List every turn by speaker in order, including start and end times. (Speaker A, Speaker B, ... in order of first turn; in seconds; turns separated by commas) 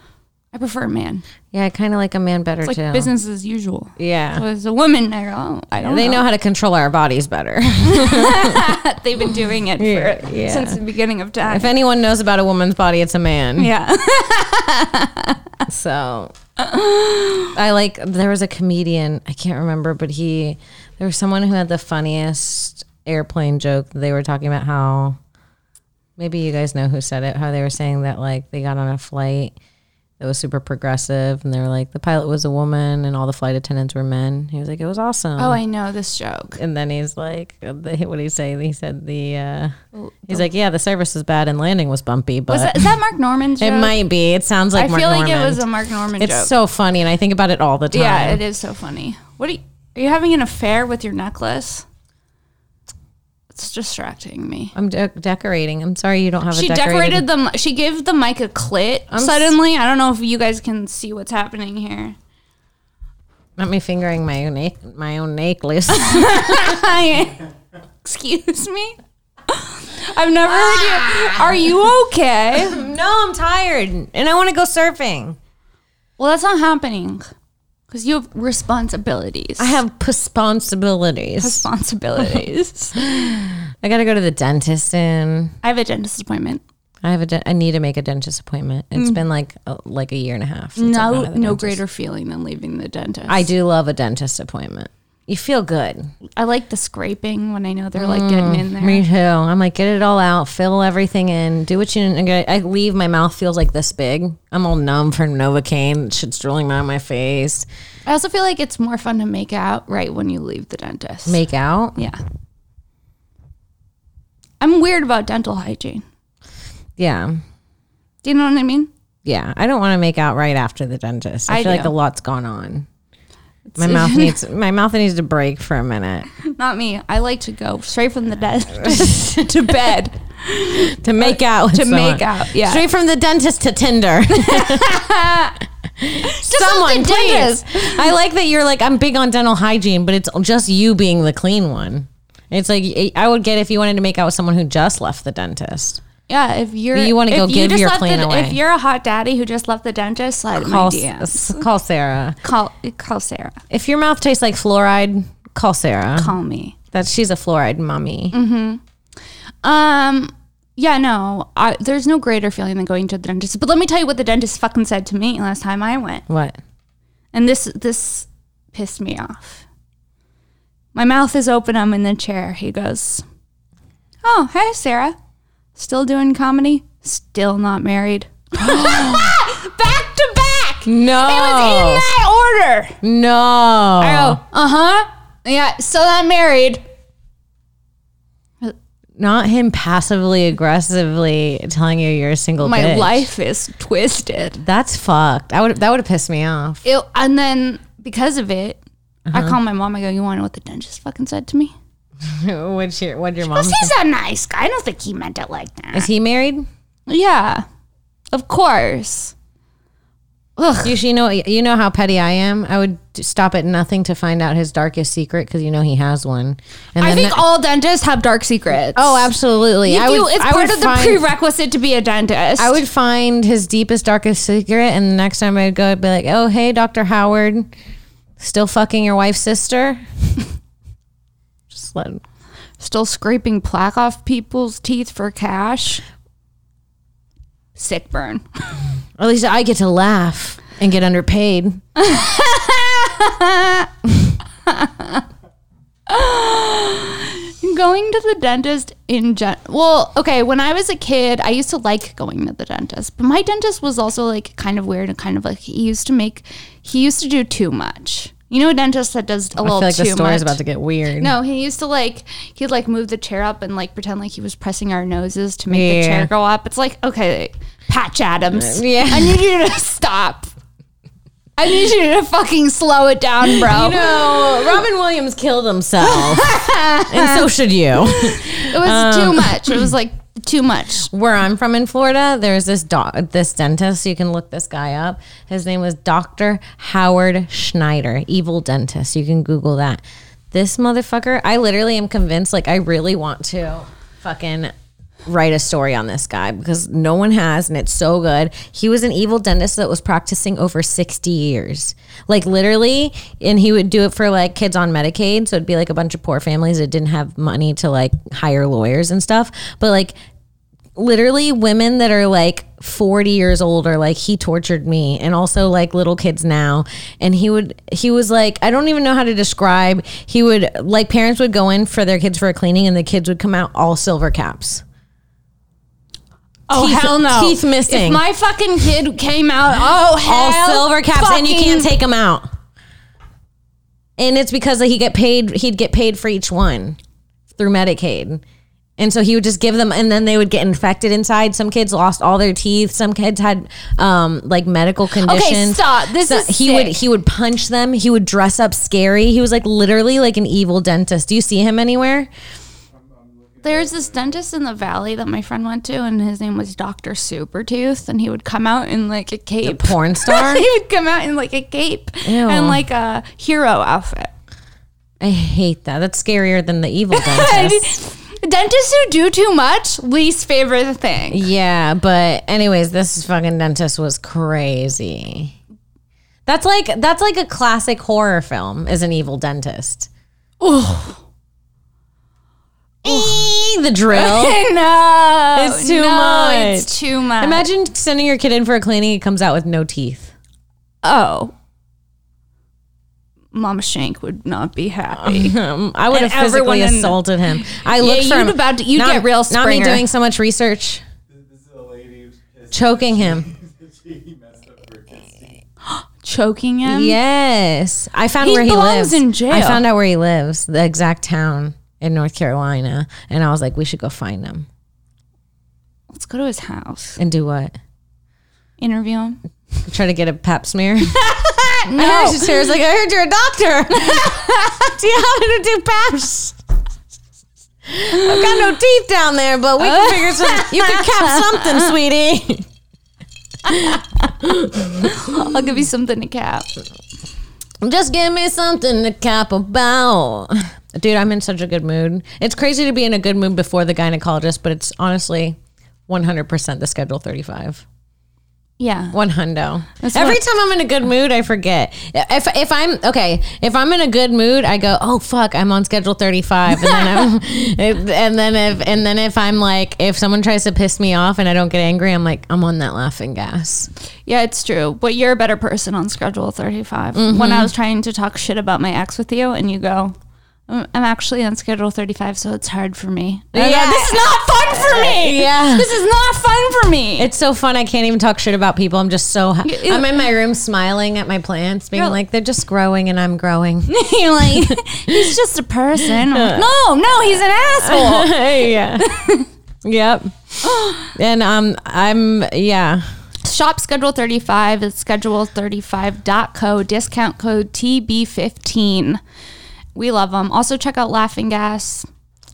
Speaker A: 0.5-1.2, Speaker B: 1.5-3.1, Speaker A: 2.6-6.2, Speaker B: 4.0-4.4, Speaker B: 5.8-8.8, Speaker A: 7.8-11.7, Speaker B: 9.8-10.8, Speaker B: 11.4-13.7, Speaker A: 13.6-15.4, Speaker B: 15.7-16.3, Speaker A: 16.6-17.5, Speaker B: 17.5-25.2, Speaker B: 26.2-29.5, Speaker B: 30.2-35.6, Speaker A: 35.4-36.6, Speaker B: 36.5-39.7, Speaker A: 39.9-40.5, Speaker B: 40.3-42.9, Speaker A: 42.5-44.0, Speaker B: 43.6-45.6, Speaker A: 44.7-46.5, Speaker B: 46.2-48.4, Speaker A: 47.9-51.9, Speaker A: 53.5-54.7, Speaker B: 54.7-57.3, Speaker A: 56.5-62.2, Speaker B: 59.1-59.5, Speaker B: 63.6-66.8, Speaker A: 65.9-67.4, Speaker A: 68.0-69.0, Speaker A: 69.5-72.8, Speaker B: 70.5-71.7, Speaker B: 72.5-75.4, Speaker A: 76.2-77.3, Speaker A: 77.9-79.8, Speaker B: 79.6-81.7, Speaker A: 81.4-83.3, Speaker B: 83.0-85.5, Speaker A: 85.6-86.6, Speaker B: 87.0-91.8, Speaker A: 90.8-93.5, Speaker B: 93.3-96.1, Speaker A: 96.4-99.0, Speaker B: 98.0-107.7, Speaker A: 108.0-111.4, Speaker B: 111.2-112.0, Speaker A: 114.6-116.0, Speaker B: 117.0-117.3, Speaker A: 118.2-118.9, Speaker B: 119.2-122.9, Speaker A: 121.5-121.9, Speaker A: 123.7-124.4, Speaker B: 123.8-126.3, Speaker A: 126.4-132.8, Speaker B: 128.8-129.5, Speaker B: 130.9-135.0, Speaker A: 134.3-135.6, Speaker B: 136.0-146.0, Speaker A: 136.2-138.0, Speaker A: 146.3-151.6, Speaker B: 146.9-148.6, Speaker B: 150.5-152.4, Speaker A: 152.4-153.6, Speaker B: 153.7-156.3, Speaker A: 156.2-156.7, Speaker B: 156.9-158.3, Speaker A: 158.3-158.8, Speaker A: 159.6-166.2, Speaker B: 166.3-166.6, Speaker A: 167.3-169.6, Speaker A: 170.9-173.2, Speaker A: 174.2-175.2, Speaker A: 175.8-183.0, Speaker B: 178.5-179.3, Speaker B: 180.8-182.0, Speaker B: 183.0-184.4, Speaker A: 184.0-186.8, Speaker B: 189.2-193.2, Speaker A: 192.6-194.6, Speaker B: 194.6-196.8, Speaker A: 196.8-198.8, Speaker B: 199.3-199.6, Speaker A: 199.3-201.7, Speaker B: 202.2-203.9, Speaker A: 203.4-206.1, Speaker B: 205.9-206.7, Speaker A: 207.1-207.6, Speaker A: 208.3-209.3, Speaker A: 210.6-210.9, Speaker B: 210.8-217.4, Speaker A: 217.0-219.3, Speaker B: 218.9-221.2, Speaker A: 219.8-222.8, Speaker B: 222.6-227.7, Speaker B: 228.4-230.0, Speaker B: 231.7-232.2, Speaker A: 232.8-236.0, Speaker A: 237.8-238.8, Speaker B: 239.2-241.8, Speaker A: 241.9-243.9, Speaker A: 244.7-245.2, Speaker A: 246.1-260.6, Speaker B: 259.6-261.3, Speaker A: 261.2-270.5, Speaker B: 265.7-266.3, Speaker B: 268.5-269.5, Speaker A: 271.6-274.7, Speaker B: 273.6-279.8, Speaker A: 276.0-277.5, Speaker A: 278.0-281.1, Speaker B: 281.1-294.7, Speaker B: 295.2-310.1, Speaker B: 310.9-324.8, Speaker A: 326.7-331.9, Speaker B: 326.7-328.2, Speaker B: 330.2-332.5, Speaker B: 334.2-337.0, Speaker B: 337.5-338.4, Speaker B: 339.0-352.3, Speaker A: 345.2-347.0, Speaker C: 352.9-354.4, Speaker A: 353.6-364.3, Speaker B: 359.6-360.6, Speaker B: 362.2-362.8, Speaker B: 365.2-367.9, Speaker A: 367.1-371.5, Speaker B: 371.3-375.6, Speaker B: 376.4-380.1, Speaker A: 380.6-381.2, Speaker B: 383.0-384.6, Speaker A: 383.0-383.5, Speaker A: 384.1-387.6, Speaker B: 385.5-390.3, Speaker A: 391.0-391.5, Speaker A: 393.5-395.6, Speaker B: 395.1-401.0, Speaker A: 396.1-400.0, Speaker C: 401.3-405.6, Speaker B: 402.7-403.5, Speaker A: 405.9-407.1, Speaker B: 406.8-414.7, Speaker A: 408.4-409.8, Speaker A: 416.1-417.2, Speaker B: 417.2-417.8, Speaker A: 418.8-419.4, Speaker B: 419.8-426.6, Speaker A: 421.9-422.5, Speaker A: 423.9-424.5, Speaker B: 427.9-432.7, Speaker A: 428.1-428.6, Speaker A: 429.8-431.9, Speaker B: 433.6-435.6, Speaker A: 434.9-436.7, Speaker B: 437.8-445.6, Speaker B: 446.1-447.8, Speaker A: 448.8-449.2, Speaker B: 449.1-463.9, Speaker A: 450.0-450.4, Speaker A: 464.2-470.2, Speaker B: 467.1-467.7, Speaker A: 470.7-477.3, Speaker B: 473.5-475.9, Speaker B: 477.2-485.3, Speaker A: 479.6-480.1, Speaker A: 483.9-489.5, Speaker B: 486.0-486.7, Speaker B: 487.8-489.1, Speaker B: 489.8-493.0, Speaker A: 490.6-491.1, Speaker A: 493.4-499.2, Speaker A: 499.9-502.1